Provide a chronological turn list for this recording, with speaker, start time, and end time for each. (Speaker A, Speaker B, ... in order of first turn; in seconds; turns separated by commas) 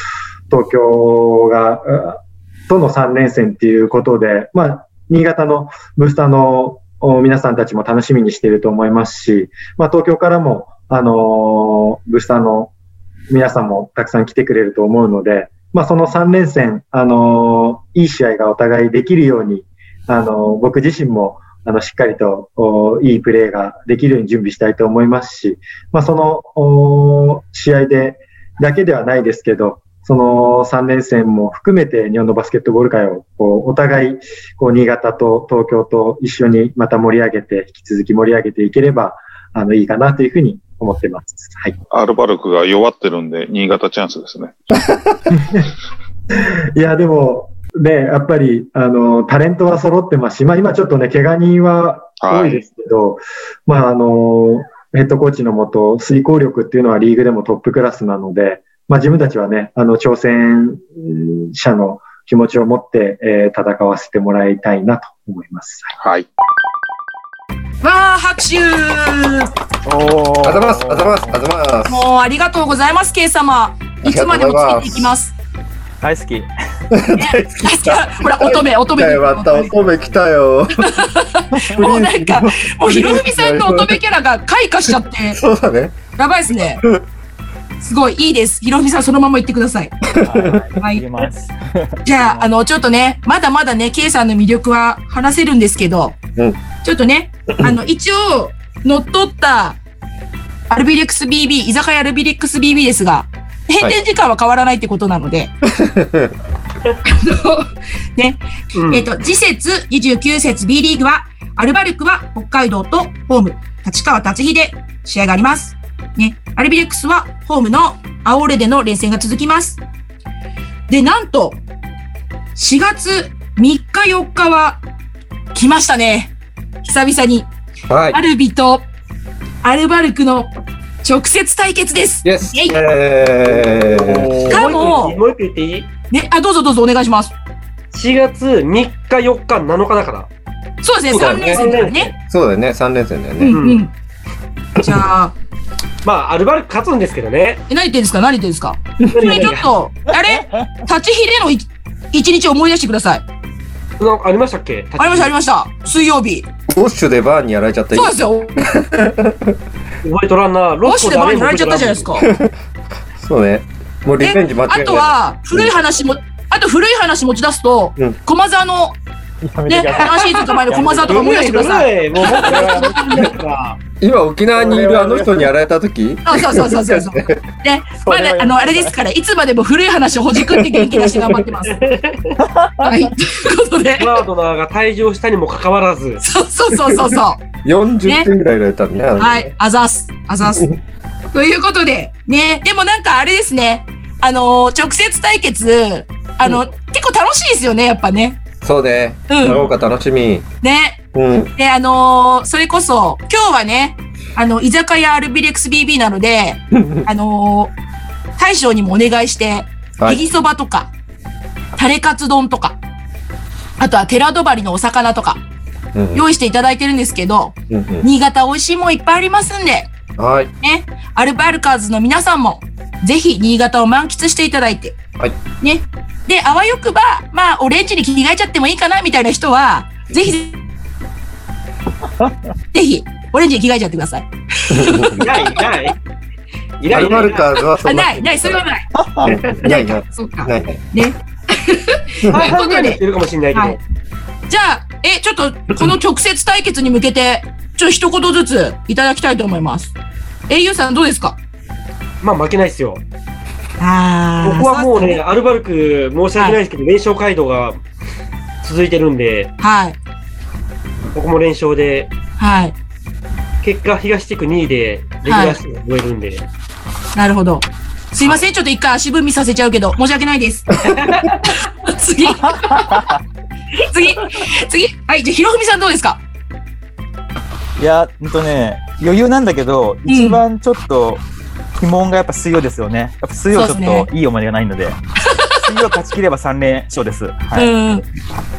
Speaker A: 0.5-12.7, Speaker A: 13.3-41.7, Speaker B: 41.9-44.5, Speaker A: 45.3-45.7, Speaker A: 46.3-65.9, Speaker B: 52.2-52.6, Speaker B: 66.0-66.3, Speaker C: 67.8-69.5, Speaker D: 69.8-71.4, Speaker E: 70.4-72.0, Speaker C: 71.9-75.3, Speaker E: 74.0-75.1, Speaker D: 76.0-76.5, Speaker E: 76.9-80.9, Speaker C: 77.1-79.7, Speaker C: 80.8-85.4, Speaker E: 81.7-84.0, Speaker E: 85.3-86.0, Speaker C: 86.2-86.8, Speaker C: 87.8-90.0, Speaker E: 90.2-90.7, Speaker D: 90.2-92.5, Speaker C: 90.8-91.0, Speaker C: 92.0-96.2, Speaker C: 96.8-99.8, Speaker C: 100.7-105.5, Speaker E: 105.6-106.3, Speaker C: 107.0-119.8, Speaker F: 108.7-109.0, Speaker C: 120.9-121.6, Speaker C: 122.5-124.8, Speaker C: 125.5-127.5, Speaker E: 127.9-128.2, Speaker C: 128.1-128.9, Speaker C: 129.6-130.5, Speaker C: 131.0-132.7, Speaker E: 132.2-134.7, Speaker F: 133.5-135.9, Speaker C: 134.5-135.2, Speaker C: 136.1-137.3, Speaker F: 137.9-140.3, Speaker C: 140.8-142.1, Speaker F: 141.1-142.2, Speaker E: 141.1-141.7, Speaker E: 142.3-143.6, Speaker C: 143.4-143.9, Speaker F: 143.5-143.8, Speaker C: 144.8-145.3, Speaker F: 146.0-147.6, Speaker C: 147.7-153.2, Speaker E: 149.0-149.4, Speaker F: 149.1-149.7, Speaker F: 154.0-155.3, Speaker C: 155.0-156.5, Speaker E: 156.7-159.6, Speaker C: 157.9-158.6, Speaker F: 160.0-162.1, Speaker C: 160.8-162.3, Speaker E: 162.2-162.5, Speaker E: 163.2-165.7, Speaker C: 164.2-169.0, Speaker D: 169.4-171.3, Speaker C: 169.7-173.3, Speaker F: 171.1-173.8, Speaker D: 172.2-172.8, Speaker E: 174.0-177.4, Speaker F: 174.5-175.5, Speaker C: 176.2-181.8, Speaker D: 178.0-178.9, Speaker E: 180.4-181.4, Speaker F: 181.7-182.4, Speaker D: 182.4-182.9, Speaker C: 182.8-184.2, Speaker F: 184.0-186.2, Speaker C: 186.2-187.4, Speaker E: 186.9-189.5, Speaker C: 189.2-190.7, Speaker E: 190.4-190.7, Speaker C: 191.3-198.4, Speaker E: 198.6-200.4, Speaker C: 199.3-199.6, Speaker C: 200.6-201.0, Speaker E: 201.1-201.5, Speaker C: 201.6-207.7, Speaker E: 206.7-207.0, Speaker C: 208.4-210.9, Speaker C: 211.8-212.8, Speaker C: 213.8-215.4, Speaker E: 215.9-216.2, Speaker C: 216.1-219.9, Speaker E: 217.7-218.1, Speaker E: 220.2-220.5, Speaker C: 220.6-225.0, Speaker C: 225.6-230.6, Speaker C: 232.7-235.6, Speaker E: 234.7-235.2, Speaker F: 235.2-235.9, Speaker F: 236.8-237.5, Speaker E: 236.9-238.6, Speaker C: 237.8-238.9, Speaker E: 239.2-240.8, Speaker F: 239.2-239.8, Speaker C: 239.7-243.0, Speaker F: 242.3-243.8, Speaker C: 244.5-249.9, Speaker C: 250.5-251.4, Speaker F: 252.2-253.0, Speaker C: 253.8-255.2, Speaker F: 254.4-257.8, Speaker F: 258.6-259.5, Speaker C: 259.6-260.0, Speaker F: 261.1-262.1, Speaker C: 262.4-262.7, Speaker F: 263.6-266.4, Speaker C: 265.2-265.6, Speaker C: 267.1-270.8, Speaker F: 270.9-271.5, Speaker C: 271.6-273.1, Speaker D: 272.4-273.2, Speaker C: 273.8-276.2, Speaker D: 277.8-281.2, Speaker C: 280.1-280.4, Speaker D: 281.8-285.0, Speaker C: 283.5-284.1, Speaker C: 285.2-285.6, Speaker D: 285.6-287.7, Speaker C: 287.6-288.0